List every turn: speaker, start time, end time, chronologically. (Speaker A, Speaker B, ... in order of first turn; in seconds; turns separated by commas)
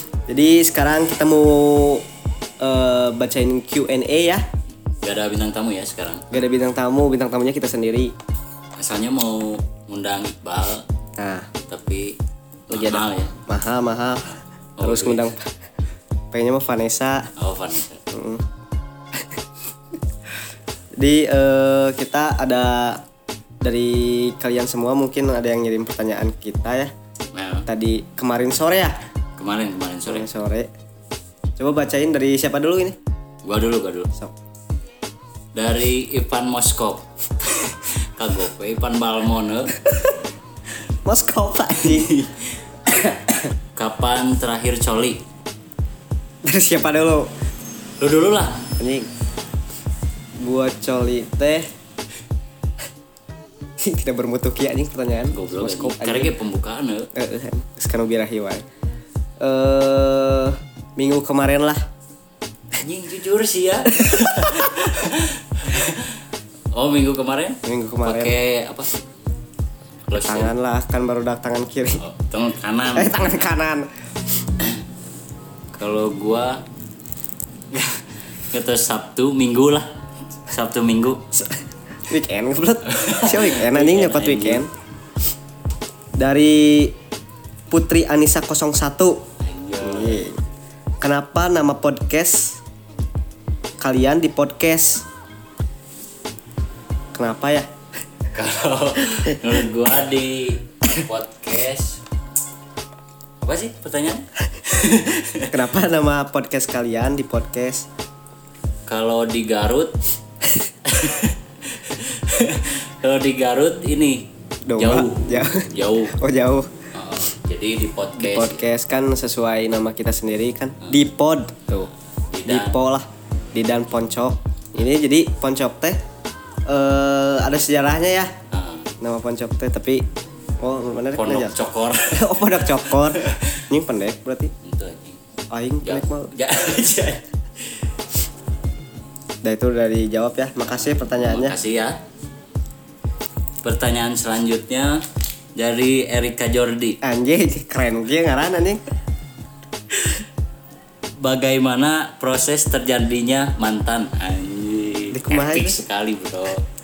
Speaker A: 0.3-2.0, Speaker A: 2.6-4.4, Speaker B: 5.0-6.3, Speaker A: 6.3-8.1, Speaker B: 8.8-10.8, Speaker A: 11.2-11.5, Speaker B: 11.7-12.2, Speaker B: 12.7-13.3, Speaker A: 12.7-15.5, Speaker B: 14.8-15.3, Speaker A: 16.3-17.3, Speaker B: 17.4-18.1, Speaker A: 18.1-18.4, Speaker A: 21.0-23.0, Speaker A: 23.6-26.9, Speaker B: 27.3-27.7, Speaker A: 27.7-29.0, Speaker B: 29.4-30.3, Speaker A: 30.1-30.7, Speaker A: 31.6-33.0, Speaker B: 33.4-34.1, Speaker B: 35.5-39.8, Speaker A: 41.0-42.1, Speaker B: 41.8-42.5, Speaker A: 42.9-43.4, Speaker B: 43.8-45.2, Speaker A: 46.5-47.3, Speaker B: 48.0-48.7, Speaker A: 48.8-49.1, Speaker A: 50.4-51.7, Speaker A: 53.8-56.4, Speaker B: 55.3-57.1, Speaker A: 57.1-58.6, Speaker A: 59.4-61.8, Speaker B: 62.8-66.2, Speaker A: 63.9-64.8, Speaker B: 66.7-68.9, Speaker A: 67.6-68.4, Speaker B: 70.1-70.5, Speaker A: 70.2-72.0, Speaker B: 72.0-73.4, Speaker A: 72.9-73.9, Speaker B: 75.8-76.6, Speaker B: 77.7-79.9, Speaker B: 80.5-81.2, Speaker A: 81.3-84.7, Speaker B: 82.9-84.6, Speaker A: 86.2-86.9, Speaker A: 87.7-89.2, Speaker B: 89.4-90.3, Speaker A: 89.8-90.4, Speaker A: 91.0-92.6, Speaker A: 93.8-95.1, Speaker A: 97.1-97.7, Speaker B: 98.3-102.0, Speaker B: 103.4-105.6, Speaker A: 105.5-107.9, Speaker B: 108.9-110.0, Speaker B: 110.9-116.2, Speaker A: 114.7-116.8, Speaker B: 116.9-118.7, Speaker A: 118.2-121.9, Speaker B: 122.3-122.8, Speaker A: 122.5-126.0, Speaker A: 126.7-128.3, Speaker B: 128.5-128.9, Speaker A: 129.0-130.0, Speaker A: 130.6-131.5, Speaker B: 131.2-133.6, Speaker A: 132.1-134.5, Speaker B: 134.6-135.2, Speaker A: 135.5-136.3, Speaker B: 135.8-137.2, Speaker A: 139.4-141.6, Speaker B: 141.1-142.0, Speaker B: 143.6-147.0, Speaker A: 147.0-148.8, Speaker B: 151.2-156.6, Speaker A: 155.1-155.8